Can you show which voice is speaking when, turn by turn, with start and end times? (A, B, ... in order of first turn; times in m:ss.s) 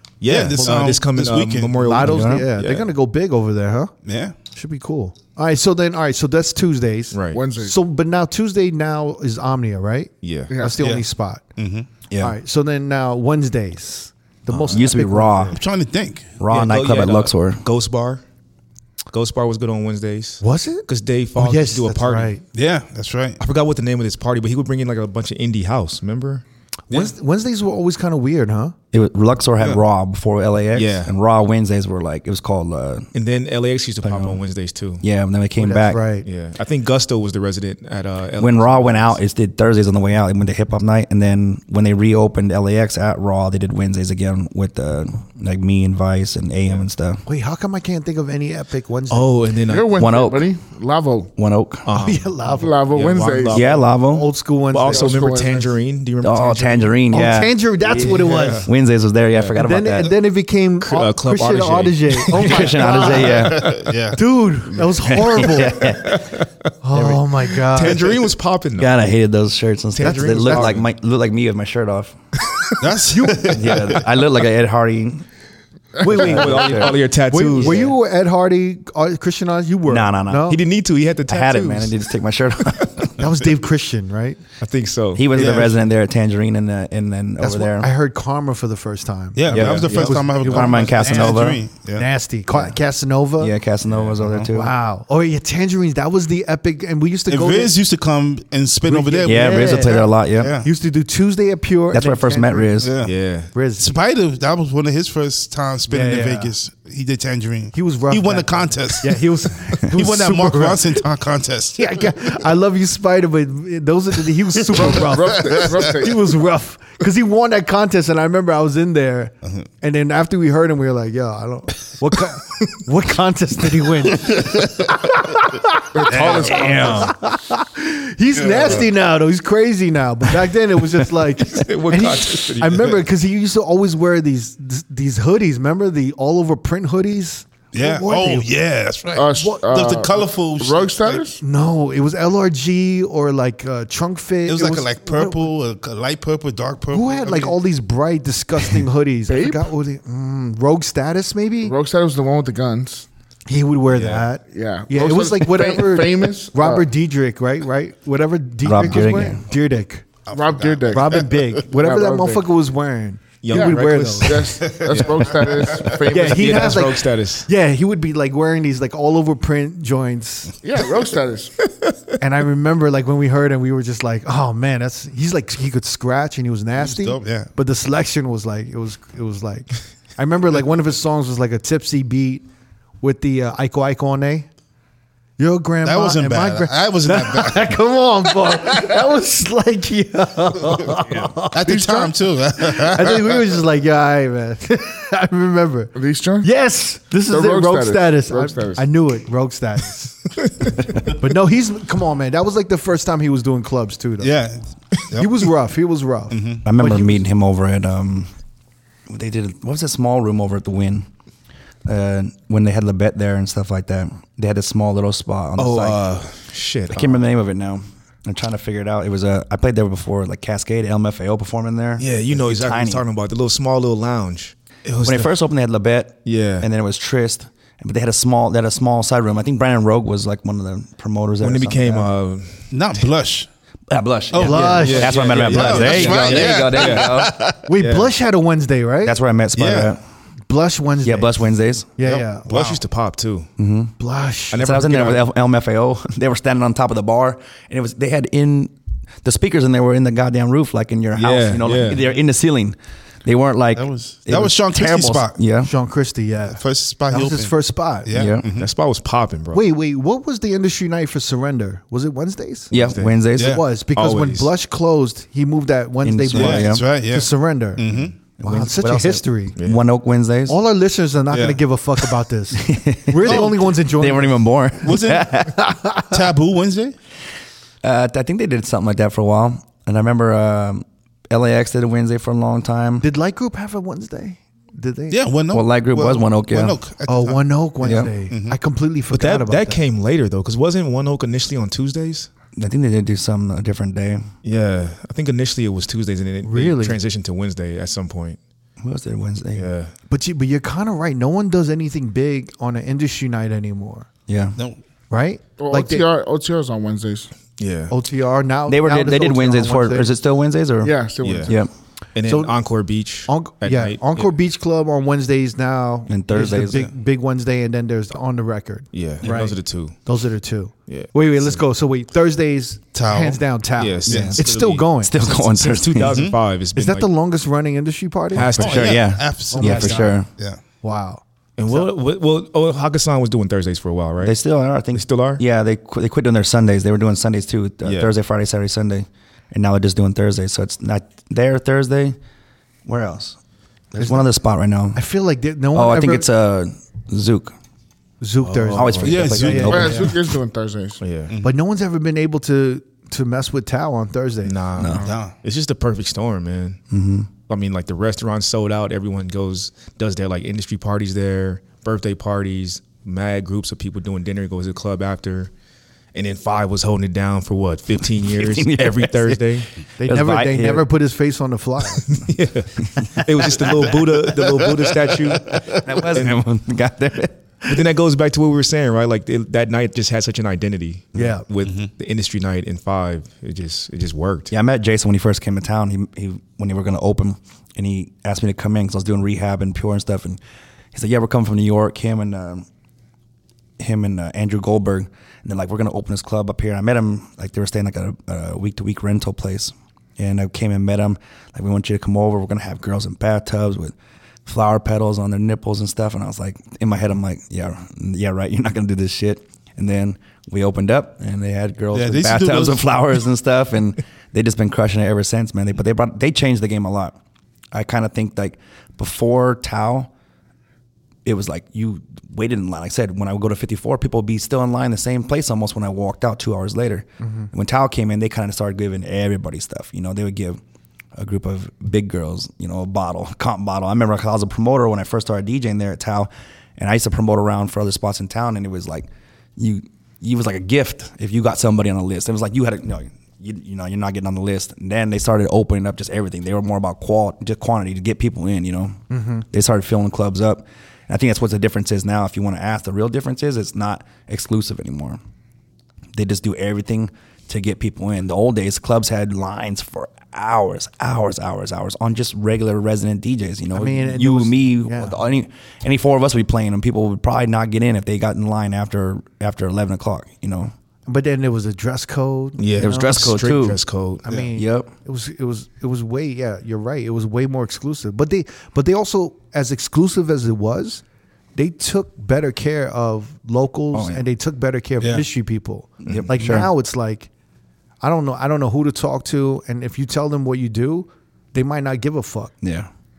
0:00.2-0:02.9 A
0:00.2-0:01.8 B
0:00.6-0:00.9 C
0:01.8-0:11.4 C
0:02.0-0:02.4 D
0:04.0-0:04.4 B
0:07.1-0:07.4 A
0:07.3-0:07.8 E
0:10.2-0:10.5 A
0:10.5-0:10.8 E
0:10.8-0:11.0 B
0:11.6-0:11.9 B
0:12.2-0:15.6 C
0:14.5-0:15.6 D
0:15.5-0:16.4 B
0:16.4-0:17.6 D
0:16.5-0:18.2 A
0:19.1-0:22.4 A
0:20.4-0:22.4 C
0:22.5-0:23.4 B
0:23.4-0:27.1 A
0:26.9-0:28.8 C
0:28.9-0:33.1 D
0:30.8-0:31.2 A
0:33.1-0:35.0 A
0:34.0-0:34.4 D
0:35.0-0:36.0 D
0:35.6-0:36.3 C
0:36.2-0:39.2 A
0:38.4-0:47.2 D
0:47.3-0:49.4 C
0:49.1-0:49.9 A
0:49.7-0:51.3 E
0:50.0-0:50.6 D
0:51.4-0:51.9 D
0:51.9-0:52.3 A
0:51.9-0:52.8 C
0:52.5-0:53.7 E
0:52.9-0:53.9 A
0:53.5-0:54.3 D
0:54.1-0:55.4 C
0:54.7-0:56.9 A
0:54.8-0:55.7 E
0:56.2-1:00.1 D
0:57.1-0:58.7 C
0:58.2-0:58.7 A
0:59.5-1:06.0 C
1:00.8-1:02.9 A
1:02.3-1:03.9 D
1:03.7-1:04.2 B
1:05.0-1:06.3 D
1:05.7-1:08.9 A
1:06.8-1:08.2 C
1:08.8-1:12.2 D
1:10.0-1:10.8 A
1:10.0-1:10.8 C
1:12.5-1:12.7 A
1:12.8-1:14.0 B
1:13.1-1:13.8 C
1:13.4-1:15.2 D
1:16.0-1:20.6 C
1:16.0-1:17.0 D
1:16.1-1:17.9 A
1:17.6-1:17.9 D
1:19.9-1:20.6 D
1:20.5-1:21.9 A
1:21.3-1:23.2 D
1:23.2-1:24.4 C
1:24.6-1:25.6 A
1:25.2-1:27.9 D
1:25.4-1:25.7 B
1:25.4-1:25.6 C
1:27.4-1:33.5 C
1:29.4-1:32.1 B
1:29.5-1:31.6 D
1:29.5-1:30.3 A
1:33.4-1:34.7 D
1:33.9-1:34.2 A
1:34.5-1:37.8 C
1:37.3-1:40.7 B
1:38.9-1:42.7 C
1:39.2-1:40.6 D
1:41.9-1:42.9 D
1:42.8-1:52.0 B
1:43.0-1:43.5 A
1:43.5-1:43.9 C
1:45.9-1:46.5 C
1:47.7-1:51.0 C
1:51.8-2:18.5 C
1:54.8-1:56.3 E
1:59.4-1:59.7 B
2:05.9-2:07.1 E
2:06.1-2:07.0 B
2:06.4-2:07.1 D
2:08.4-2:08.8 B
2:11.4-2:13.0 A
2:17.7-2:21.3 B
2:19.2-2:21.4 E
2:19.4-2:19.6 C
2:21.4-2:25.5 C
2:24.5-2:27.6 B
2:26.9-2:31.8 C
2:29.3-2:29.7 E
2:31.6-2:33.1 E
2:33.5-2:40.1 C
2:33.9-2:34.3 A
2:34.5-2:36.9 E
2:38.6-2:39.4 D
2:40.3-2:41.2 B
2:40.3-2:42.5 E
2:40.9-2:44.6 C
2:43.4-2:47.5 A
2:43.5-2:46.8 E
2:44.6-2:45.1 B
2:46.1-2:50.6 C
2:50.6-2:51.5 E
2:52.2-3:02.4 C
2:56.8-2:57.5 B
3:03.0-3:04.5 C
3:05.4-3:20.3 C
3:05.8-3:07.8 B
3:11.5-3:13.4 B
3:11.7-3:12.1 E
3:16.0-3:16.5 E
3:17.3-3:18.8 E
3:20.9-3:24.4 C
3:24.2-3:25.3 B
3:25.2-3:27.2 C
3:26.3-3:26.6 B
3:26.6-3:28.3 D
3:29.1-3:31.1 D
3:31.9-3:36.0 D
3:35.6-3:37.2 A
3:36.9-3:43.0 D
3:42.0-3:45.3 A
3:45.0-3:52.1 D
3:46.2-3:46.7 A
3:51.4-3:52.7 A
3:52.7-3:53.5 B
3:53.9-3:57.4 D
3:54.3-3:57.6 B
3:54.4-3:55.2 C
3:54.8-3:58.1 A
3:57.6-3:59.2 C
3:59.0-4:00.0 D
3:59.6-3:59.9 B
4:00.5-4:01.4 C
4:01.0-4:01.9 D
4:02.0-4:02.6 C
4:02.0-4:02.8 B
4:02.5-4:03.5 A
4:03.6-4:03.9 D
4:04.0-4:05.1 C
4:04.5-4:05.2 A
4:04.5-4:08.7 D
4:09.2-4:15.7 D
4:11.2-4:12.0 A
4:13.8-4:15.4 B
4:15.6-4:18.1 C
4:16.5-4:18.7 B
4:18.1-4:18.5 D
4:18.5-4:19.6 A
4:19.5-4:22.7 C
4:22.7-4:23.6 D
4:22.7-4:24.5 A
4:23.4-4:23.6 B
4:23.4-4:27.8 C
4:26.0-4:26.8 D
4:26.3-4:28.1 B
4:28.4-4:29.6 C
4:28.4-4:30.6 D
4:30.5-4:34.4 C
4:31.3-4:31.6 B
4:32.6-4:35.6 D
4:33.2-4:33.6 B
4:34.8-4:35.6 B
4:35.6-4:36.0 C
4:36.1-4:37.0 B
4:37.8-4:43.1 D
4:43.0-4:45.2 C
4:45.1-4:48.6 B
4:45.5-4:46.8 D
4:47.1-4:49.8 C
4:47.8-4:48.1 D
4:49.1-4:52.3 A
4:52.6-4:54.2 D
4:54.4-4:58.4 A
4:56.4-4:57.0 C
4:58.8-4:59.7 D
4:59.6-4:59.9 A
5:00.1-5:04.1 C
5:04.3-5:04.6 D
5:05.1-5:06.1 C
5:05.6-5:07.3 E
5:07.6-5:07.9 A
5:07.9-5:10.1 C
5:08.7-5:11.7 D
5:10.8-5:11.6 E
5:11.2-5:11.5 A
5:12.2-5:14.3 A
5:12.2-5:12.6 C
5:13.3-5:25.2 C
5:16.1-5:16.8 D
5:18.9-5:20.0 A
5:20.9-5:21.6 A
5:23.0-5:23.4 B
5:23.8-5:27.1 A
5:24.1-5:24.4 D
5:24.1-5:24.4 B
5:25.0-5:26.2 D
5:26.1-5:26.4 B
5:26.8-5:28.7 C
5:28.3-5:29.2 A
5:28.6-5:30.3 D
5:28.6-5:30.6 B
5:29.5-5:30.3 C
5:30.8-5:31.8 C
5:31.6-5:34.4 A
5:34.2-5:42.2 D
5:34.9-5:35.4 A
5:37.8-5:38.1 A
5:42.9-5:43.4 D
5:43.9-5:45.0 D
5:44.0-5:44.3 C
5:45.0-5:46.3 C
5:45.7-5:47.5 D
5:48.2-5:50.1 C
5:48.4-5:49.5 A
5:48.7-5:50.2 D
5:49.0-5:50.0 B
5:49.7-5:51.0 E
5:51.0-5:51.3 A
5:51.4-5:54.6 C
5:54.4-5:56.8 A
5:54.8-5:55.0 D
5:55.0-5:55.3 B
5:56.9-5:57.3 D
5:57.5-6:05.5 A
6:06.1-6:09.7 A
6:08.3-6:10.9 D
6:10.0-6:12.1 C
6:12.1-6:16.3 A
6:15.4-6:17.8 D
6:17.7-6:24.5 A
6:21.2-6:21.4 C
6:24.5-6:30.4 D
6:30.9-6:32.6 D
6:33.8-6:43.9 D
6:44.5-6:57.2 D
6:51.9-6:52.9 B
6:57.7-7:00.1 D
7:01.2-7:10.6 D
7:07.2-7:07.5 C
7:11.2-7:35.2 D
7:29.1-7:29.4 C
7:36.1-7:50.7 D
7:43.7-7:45.2 C
7:51.1-7:53.2 C
7:52.6-7:54.2 A
7:52.8-7:53.8 D
7:54.2-8:01.0 C
7:54.4-7:54.9 D
8:01.6-8:07.3 C
8:03.9-8:04.2 D
8:06.1-8:06.7 D
8:08.0-8:12.6 C
8:12.6-8:12.9 D